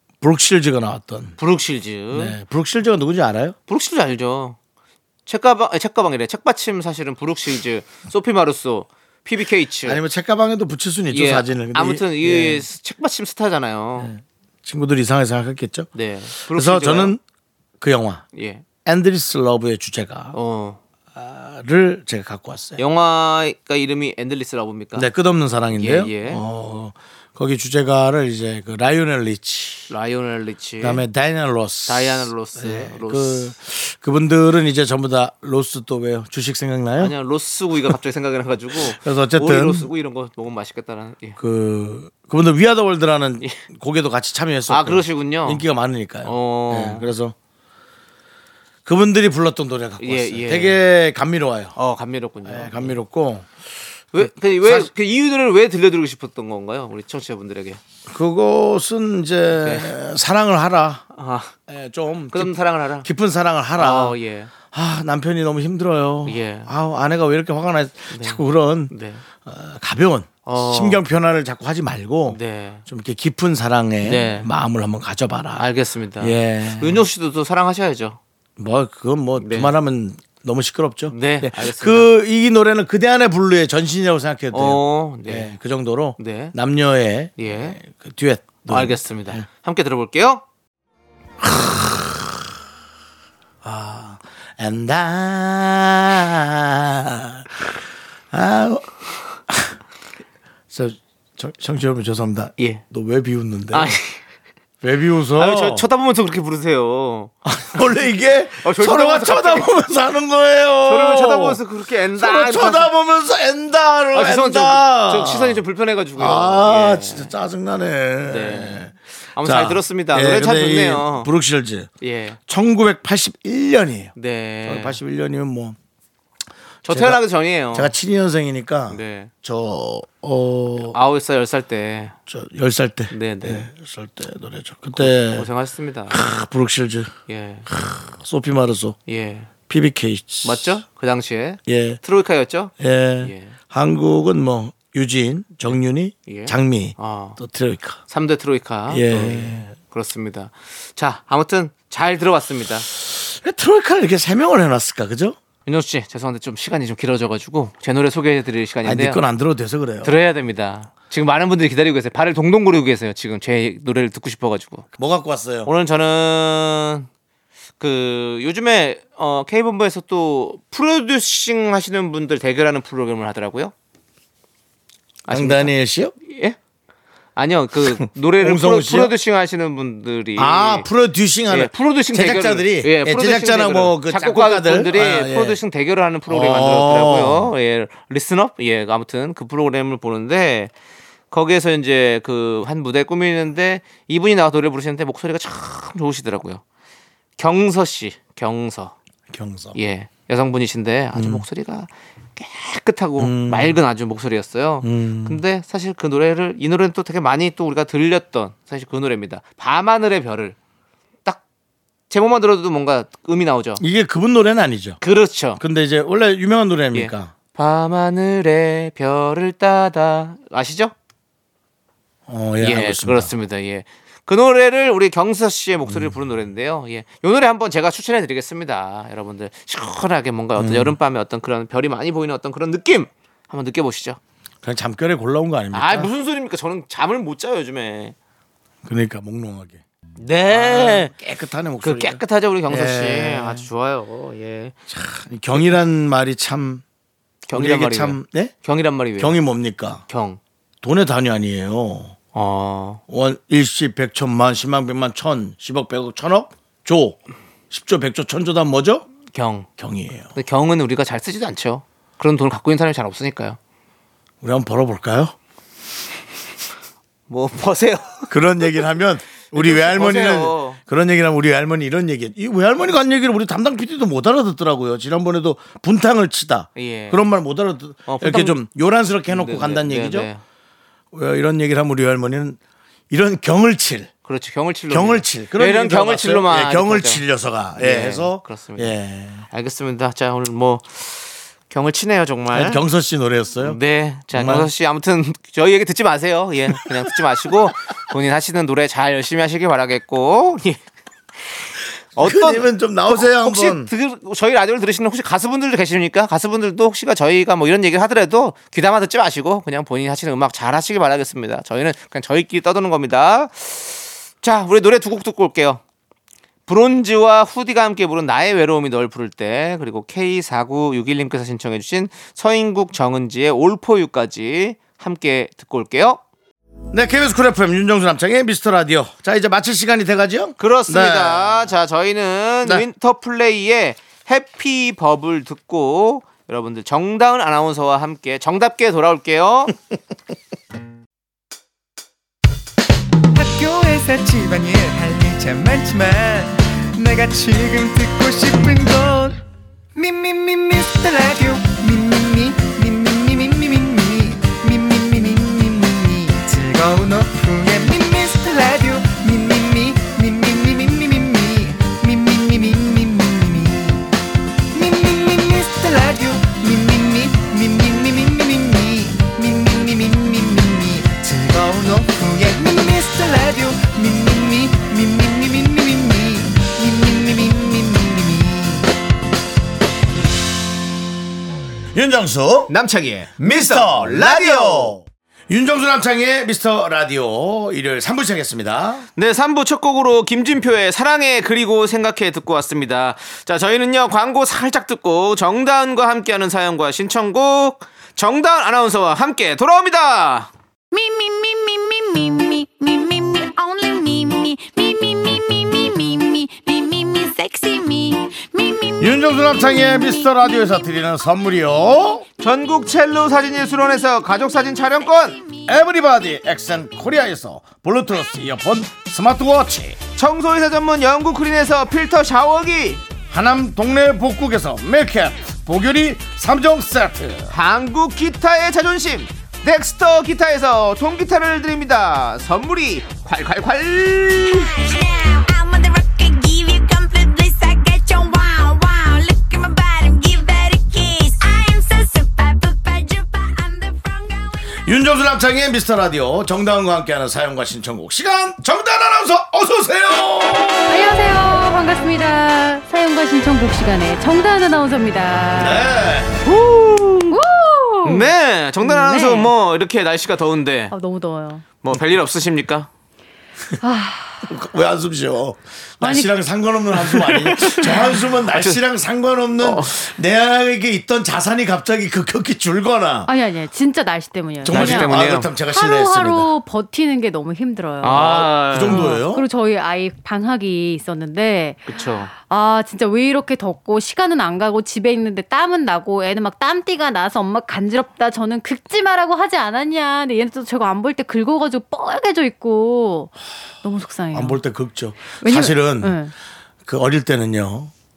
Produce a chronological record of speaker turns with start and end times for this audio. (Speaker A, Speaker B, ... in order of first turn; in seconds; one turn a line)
Speaker A: 0.2-1.4
Speaker B: 1.4-2.4
Speaker A: 2.1-3.5
Speaker B: 3.7-4.6
Speaker B: 5.2-10.0
Speaker A: 9.8-12.6
Speaker B: 11.1-14.1
Speaker A: 14.0-17.2
Speaker B: 15.9-17.2
Speaker A: 17.8-18.2
Speaker B: 18.3-18.6
Speaker A: 18.8-20.4
Speaker B: 20.3-20.8
Speaker A: 21.1-22.8
Speaker B: 22.8-25.1
Speaker A: 24.9-29.9
Speaker B: 25.7-26.4
Speaker B: 29.9-31.0
Speaker A: 30.8-37.1
Speaker B: 31.9-33.5
Speaker B: 37.0-41.4
Speaker A: 38.9-39.9
Speaker A: 41.4-47.3
Speaker B: 44.7-45.6
Speaker B: 46.2-47.1
Speaker A: 48.9-51.7
Speaker B: 50.0-50.8
Speaker B: 51.8-53.0
Speaker A: 52.4-53.5
Speaker B: 54.1-57.8
Speaker A: 54.2-54.9
Speaker A: 58.1-61.0
Speaker B: 59.5-59.9
Speaker B: 61.1-61.5
Speaker A: 61.7-64.2
Speaker B: 62.3-63.1
Speaker B: 63.8-64.5
Speaker A: 64.7-68.9
Speaker B: 66.2-66.7
Speaker B: 68.1-69.2
Speaker A: 69.4-75.7
Speaker B: 70.5-71.0
Speaker B: 72.3-72.8
Speaker B: 74.0-74.5
Speaker B: 75.5-78.2
Speaker A: 76.2-77.0
Speaker A: 78.6-89.5
Speaker B: 79.4-79.7
Speaker B: 81.1-82.1
Speaker B: 84.5-85.5
Speaker B: 86.2-86.5
Speaker B: 87.4-87.8
Speaker B: 88.7-90.4
Speaker A: 91.4-92.5
Speaker A: 93.6-97.7
Speaker A: 98.3-98.9
Speaker A: 99.5-99.7
Speaker A: 100.7-103.9
Speaker B: 103.7-104.2
Speaker A: 104.8-105.9
Speaker B: 105.4-107.3
Speaker A: 107.4-111.6
Speaker B: 108.6-109.7
Speaker B: 110.8-112.9
Speaker A: 112.1-115.6
Speaker B: 114.1-117.3
Speaker A: 116.2-121.9
Speaker B: 118.2-121.3
Speaker B: 122.0-122.4
Speaker A: 122.5-125.8
Speaker B: 124.2-125.0
Speaker B: 126.8-127.9
Speaker A: 126.9-131.0
Speaker B: 128.9-129.3
Speaker B: 130.9-132.1
Speaker A: 132.3-135.5
Speaker B: 133.1-133.7
Speaker B: 134.9-136.2
Speaker A: 136.1-137.1
Speaker B: 137.3-137.7
Speaker A: 137.7-138.9
Speaker B: 139.1-139.5
Speaker A: 139.7-140.8
Speaker B: 140.4-143.6
Speaker A: 141.7-142.0
Speaker A: 142.8-148.0
Speaker B: 146.2-147.4
Speaker B: 148.1-152.9
Speaker A: 148.9-149.7
Speaker A: 152.9-155.4
Speaker B: 155.7-159.2
Speaker A: 158.8-160.1
Speaker B: 160.0-164.9
Speaker A: 165.0-165.7
Speaker B: 165.6-167.1
Speaker B: 167.8-173.7
Speaker B: 175.2-176.6
Speaker A: 175.3-176.1
Speaker B: 177.3-180.9
Speaker A: 177.8-179.1
Speaker A: 180.3-185.6
Speaker B: 181.5-190.7
Speaker A: 186.3-187.5
Speaker B: 191.3-196.6
Speaker B: 197.4-198.9
Speaker A: 199.3-199.8
Speaker B: 199.7-210.6
Speaker A: 201.1-201.4
Speaker A: 203.2-203.8
Speaker A: 204.8-205.4
Speaker B: 212.1-213.8
Speaker A: 213.8-215.0
Speaker B: 215.0-215.6
Speaker A: 215.6-217.3
Speaker B: 216.9-220.9
Speaker A: 222.3-223.3
Speaker B: 222.6-234.2
Speaker A: 225.9-226.2
Speaker A: 230.6-230.9
Speaker A: 234.6-236.1
Speaker B: 235.7-238.1
Speaker A: 238.8-239.8
Speaker B: 240.2-241.1
Speaker A: 240.5-243.7
Speaker B: 241.8-244.8
Speaker A: 244.9-246.8
Speaker B: 247.5-249.4
Speaker A: 247.5-248.5
Speaker A: 249.2-250.0
Speaker B: 250.1-250.4
Speaker A: 250.8-252.2
Speaker B: 252.3-253.0
Speaker A: 253.1-257.2
Speaker A: 257.7-259.1
Speaker B: 259.3-259.7
Speaker A: 259.8-260.3
Speaker B: 260.3-263.6
Speaker A: 264.4-265.3
Speaker B: 267.3-268.3
Speaker A: 268.3-280.3
Speaker B: 269.5-270.8
Speaker B: 276.8-277.2
Speaker B: 278.1-278.6
Speaker B: 279.3-280.4
Speaker A: 281.1-282.6
Speaker A: 283.1-284.1
Speaker B: 284.2-287.2
Speaker A: 284.9-289.4
Speaker B: 287.8-288.9
Speaker B: 289.5-292.8
Speaker A: 292.5-293.8
Speaker B: 293.6-300.8
Speaker A: 294.3-294.7
Speaker A: 302.1-303.9
Speaker B: 302.1-315.8
Speaker B: 316.7-326.2
Speaker A: 326.9-331.6
Speaker B: 330.6-339.7
Speaker C: 343.3-349.4
Speaker C: 349.9-364.1
Speaker C: 364.7-378.9
Speaker A: 381.9-382.7
Speaker B: 382.7-385.0
Speaker A: 383.4-389.1
Speaker B: 389.1-400.5
Speaker D: 400.9-410.8
Speaker A: 409.0-412.2
Speaker B: 412.4-415.4
Speaker D: 414.2-415.7
Speaker A: 415.6-420.0
Speaker B: 420.1-423.0
Speaker A: 423.3-427.5
Speaker B: 427.5-434.8
Speaker D: 434.4-444.7
Speaker A: 444.8-451.2
Speaker E: 450.9-456.0
Speaker A: 455.5-456.4
Speaker B: 456.4-457.4
Speaker E: 457.3-459.5
Speaker B: 458.0-460.9
Speaker E: 460.9-461.6
Speaker B: 461.8-462.9
Speaker E: 463.8-464.5
Speaker A: 464.4-473.3
Speaker E: 466.0-466.4
Speaker B: 466.9-468.8
Speaker B: 469.6-470.0
Speaker E: 473.3-475.1
Speaker A: 474.6-476.5
Speaker B: 474.7-475.5
Speaker E: 475.7-494.6
Speaker B: 478.0-479.1
Speaker A: 478.1-479.4
Speaker B: 481.9-482.3
Speaker A: 494.3-496.2
Speaker E: 495.4-496.3
Speaker A: 496.9-497.9